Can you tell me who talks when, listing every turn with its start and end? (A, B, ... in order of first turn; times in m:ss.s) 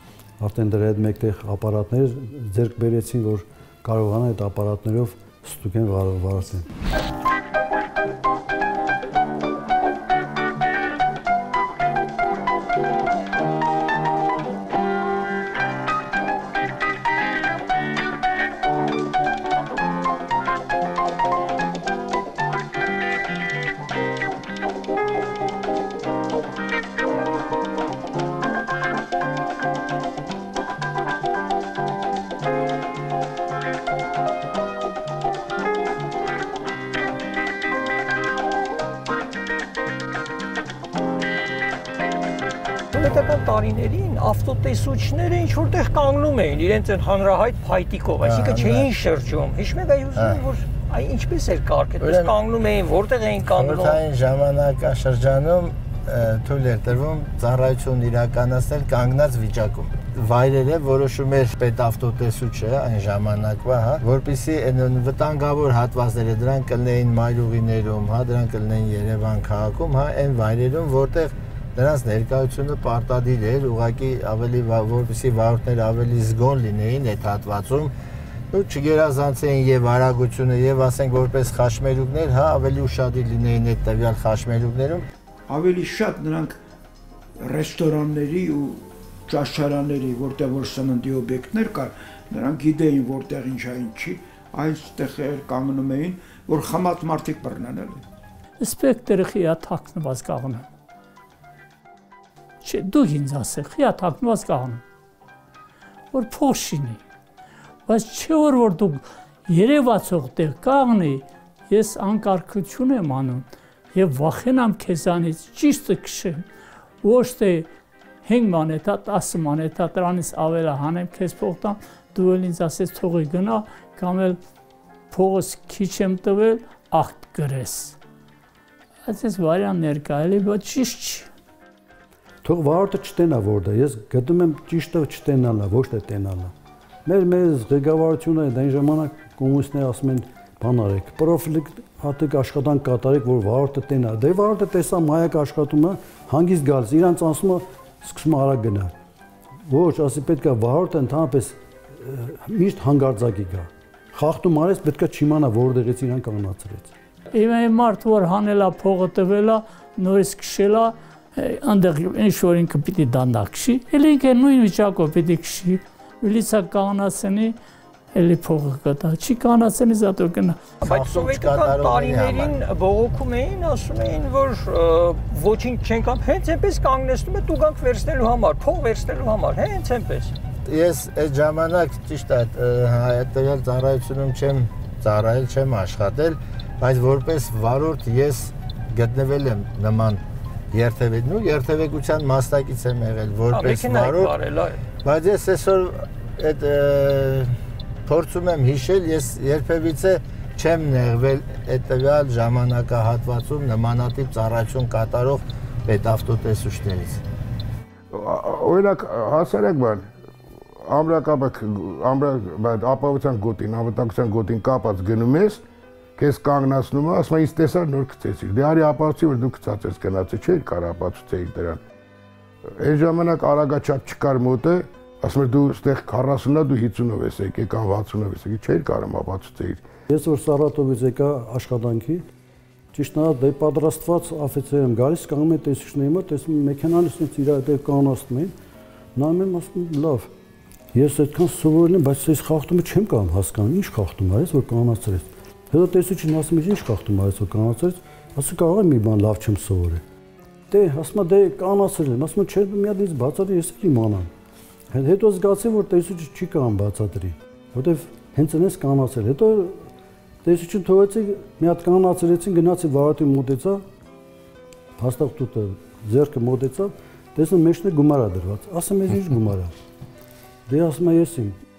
0:00.4-0:06.6 A
0:42.9-0:54.0 B
0:48.2-0:48.9 C
0:52.0-0:52.3 C
0:53.4-1:17.9 C
1:18.5-1:25.0 C
1:25.5-1:26.6 D
1:27.4-1:38.0 D
1:38.6-1:40.6 E
1:42.6-1:44.8 E
1:46.1-1:47.0 E
1:47.9-1:56.4 E
1:57.0-1:57.7 E
1:58.2-2:04.4 E
2:05.1-2:08.0 E
2:09.0-2:11.3 E
2:12.4-2:16.5 A
2:17.0-2:28.9 A
2:29.7-2:36.9 A
2:37.3-2:47.6 E
2:48.1-2:50.7 E
2:50.8-3:00.3 B
2:50.8-2:52.5 C
3:00.6-3:14.3 C
3:13.5-3:14.8 B
3:15.0-3:17.5 C
3:18.0-3:27.2 C
3:28.1-3:30.1 F
3:30.8-3:35.6 F
3:36.2-3:41.8 F
3:42.7-3:49.8 F
3:50.1-3:52.3 A
3:52.9-3:58.5 A
3:59.2-4:00.3 A
4:00.9-4:10.0 A
4:10.7-4:14.3 A
4:14.9-4:19.9 A
4:20.4-4:23.8 A
4:25.0-4:29.7 A
4:30.7-4:31.6 A